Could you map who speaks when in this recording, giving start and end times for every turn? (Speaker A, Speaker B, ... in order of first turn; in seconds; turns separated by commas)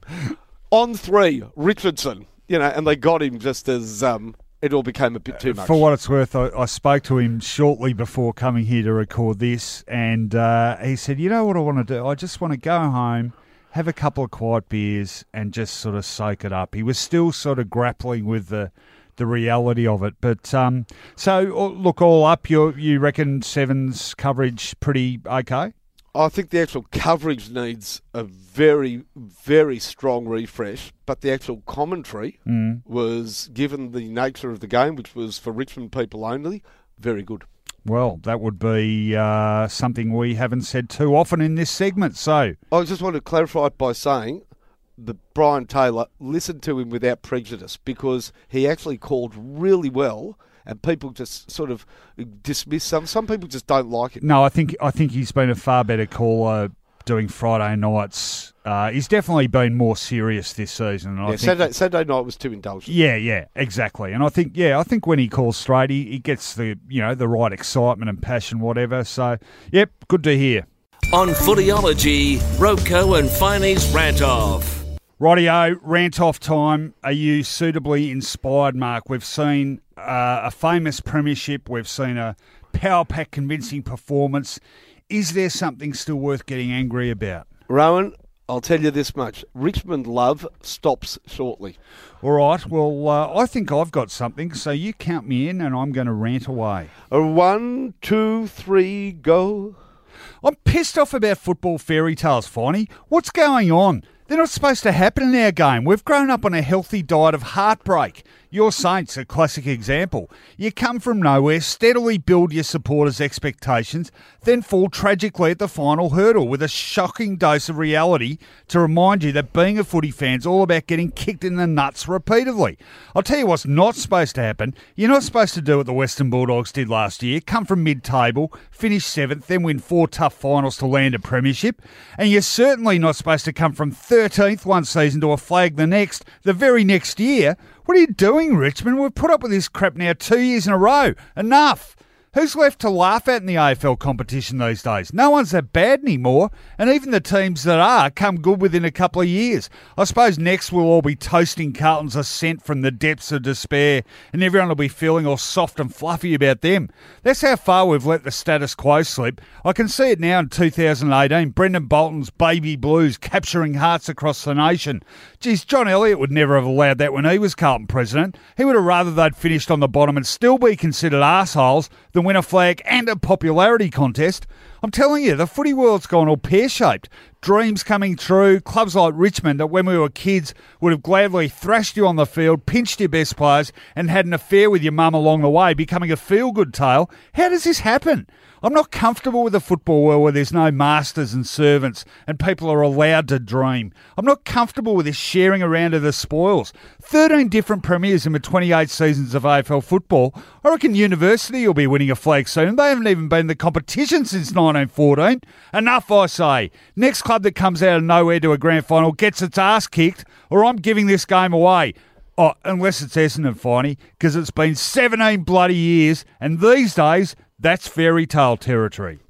Speaker A: 0.7-5.8, Speaker B: 5.4-25.7, Speaker A: 26.1-37.5, Speaker B: 32.5-32.8, Speaker B: 37.9-42.6, Speaker A: 42.7-44.4, Speaker A: 45.0-54.2, Speaker B: 54.2-61.7, Speaker A: 61.3-63.0, Speaker B: 62.9-70.7, Speaker C: 71.1-74.8, Speaker B: 75.2-87.5, Speaker A: 87.7-91.8, Speaker B: 92.2-96.9, Speaker A: 97.1-99.8, Speaker B: 100.4-219.2